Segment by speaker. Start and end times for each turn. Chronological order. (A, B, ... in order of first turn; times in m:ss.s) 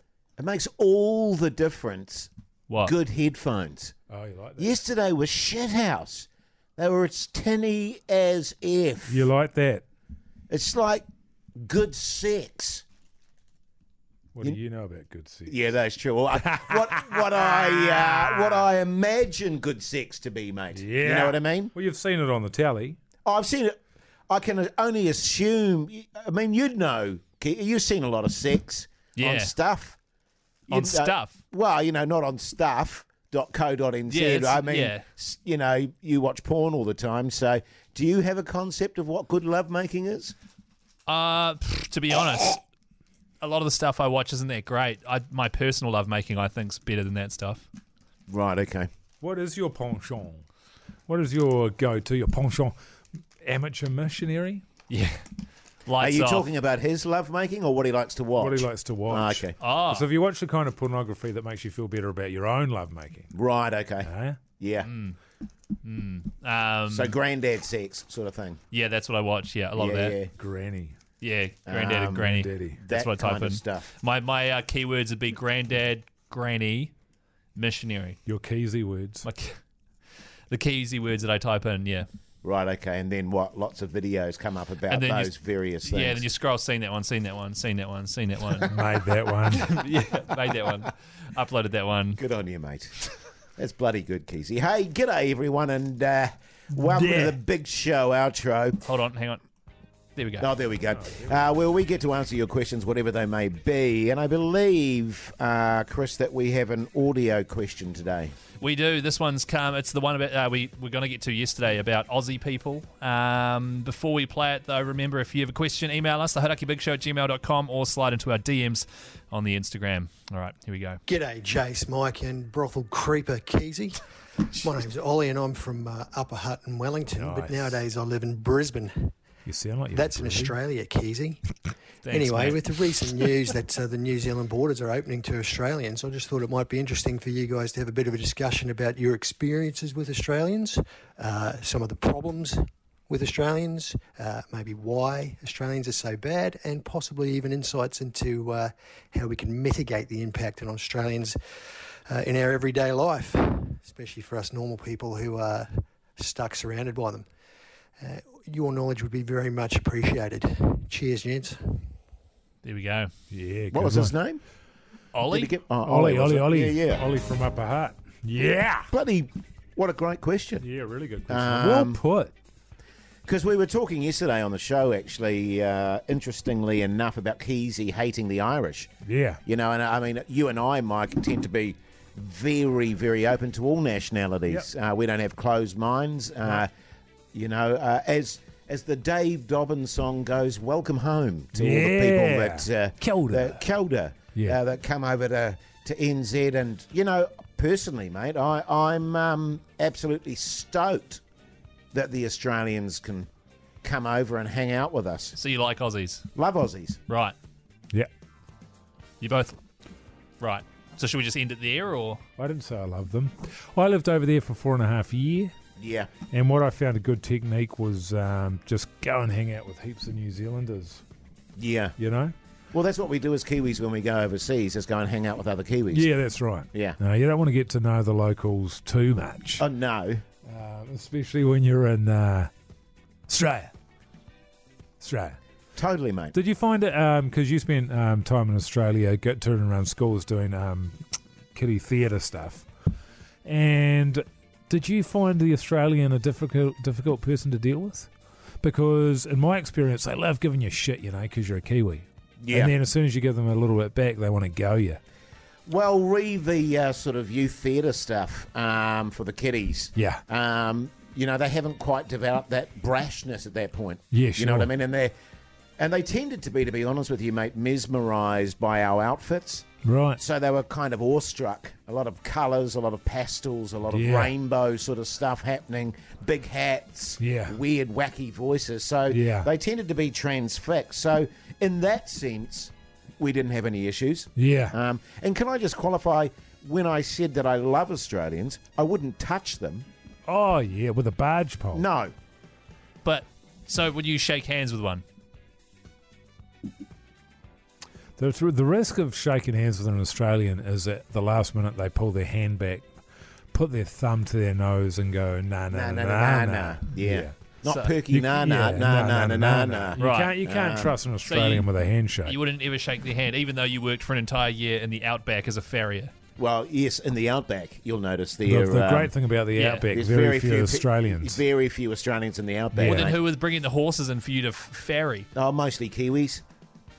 0:00.4-0:02.3 A
0:02.7-0:02.9 B
0:02.8-0:03.9 A
0:04.1-0:04.8 C
0:04.6-0:09.3 A
0:09.1-0:09.8 C
0:10.5-0:11.0 A
0:11.6-0:12.8 A
0:14.3-0:15.6 C
0:15.5-0:21.7 A
0:16.4-0:18.7 C
0:20.7-0:23.0 C
0:23.2-0:23.8 A
0:24.3-0:30.0 A
0:29.2-0:29.5 B
0:30.7-0:31.3 B
0:30.7-0:40.3 A
0:34.1-0:35.0 B
0:41.1-0:42.6 B
0:43.4-0:47.6 B
0:48.3-0:48.9 A
0:49.2-0:50.4 C
0:51.1-0:52.7 C
0:53.4-0:54.6 C
0:54.9-0:55.2 B
0:55.8-0:56.5 B
0:56.0-0:59.6 A
0:58.4-1:03.3 C
0:59.6-1:00.1 B
1:03.3-1:04.9 A
1:04.0-1:04.4 C
1:04.8-1:05.2 B
1:05.8-1:07.2 B
1:06.9-1:08.6 A
1:08.7-1:10.2 B
1:09.8-1:10.3 A
1:10.4-1:10.9 C
1:11.2-1:16.9 B
1:11.6-1:13.9 A
1:12.2-1:12.8 C
1:17.6-1:18.2 B
1:18.3-1:19.2 C
1:19.2-1:19.6 B
1:20.5-1:22.1 B
1:22.4-1:26.3 A
1:24.9-1:28.7 B
1:28.7-1:29.7 C
1:29.5-1:32.2 B
1:32.2-1:33.0 A
1:33.5-1:38.8 A
1:36.8-1:37.4 C
1:38.8-1:39.4 B
1:40.2-1:40.5 B
1:40.4-1:48.3 A
1:48.6-2:01.0 B
2:01.1-2:09.1 D
2:07.1-2:07.8 C
2:09.4-2:10.5 C
2:09.9-2:11.5 D
2:12.0-2:12.7 B
2:12.1-2:31.4 D
2:32.1-2:37.2 D
2:38.0-2:41.9 D
2:42.6-2:43.1 B
2:43.3-2:44.1 C
2:43.7-2:44.4 A
2:45.1-2:45.5 B
2:45.2-2:47.0 A
2:45.8-2:48.9 C
2:48.9-2:50.6 A
2:50.6-2:52.3 C
2:51.3-2:52.0 A
2:53.2-2:58.9 A
2:59.0-2:59.4 C
2:59.4-3:06.7 A
3:07.3-3:21.2 A
3:11.5-3:13.6 C
3:21.9-3:23.3 A
3:23.8-3:25.4 A
3:25.4-3:26.2 B
3:26.3-3:27.0 A
3:27.1-3:27.3 B
3:29.2-3:29.6 B
3:30.4-3:32.2 B
3:32.4-3:35.5 C
3:35.8-3:36.1 A
3:36.3-3:41.0 C
3:41.6-3:42.0 A
3:42.0-3:42.3 C
3:42.7-3:46.1 A
3:45.9-3:49.6 C
3:46.7-3:47.0 A
3:49.6-3:50.2 A
3:50.4-3:52.5 C
3:53.3-3:53.7 C
3:55.0-3:55.4 C
3:55.8-3:56.3 A
3:56.3-4:01.0 C
4:01.5-4:02.7 C
4:03.4-4:08.1 C
4:08.6-4:15.0 C
4:12.4-4:12.7 A
4:15.7-4:25.1 A
4:19.9-4:20.2 C
4:24.1-4:24.7 C
4:25.8-4:29.6 A
4:29.8-4:30.2 C
4:30.2-4:49.8 A
4:33.9-4:34.3 C
4:37.2-4:37.6 C
4:39.1-4:39.5 C
4:44.4-4:44.7 C
4:50.2-4:51.8 C
4:51.7-4:52.1 A
4:53.0-4:55.0 B
4:58.2-5:02.8 C
5:03.5-5:07.3 C
5:05.7-5:11.0 A
5:07.6-5:08.0 B
5:08.1-5:12.4 C
5:10.0-5:10.3 B
5:11.2-5:11.7 B
5:12.2-5:16.1 B
5:16.4-5:19.1 A
5:18.4-5:21.4 C
5:19.5-5:19.9 B
5:19.9-5:23.2 A
5:22.7-5:23.1 C
5:22.8-5:25.3 B
5:25.3-5:26.4 A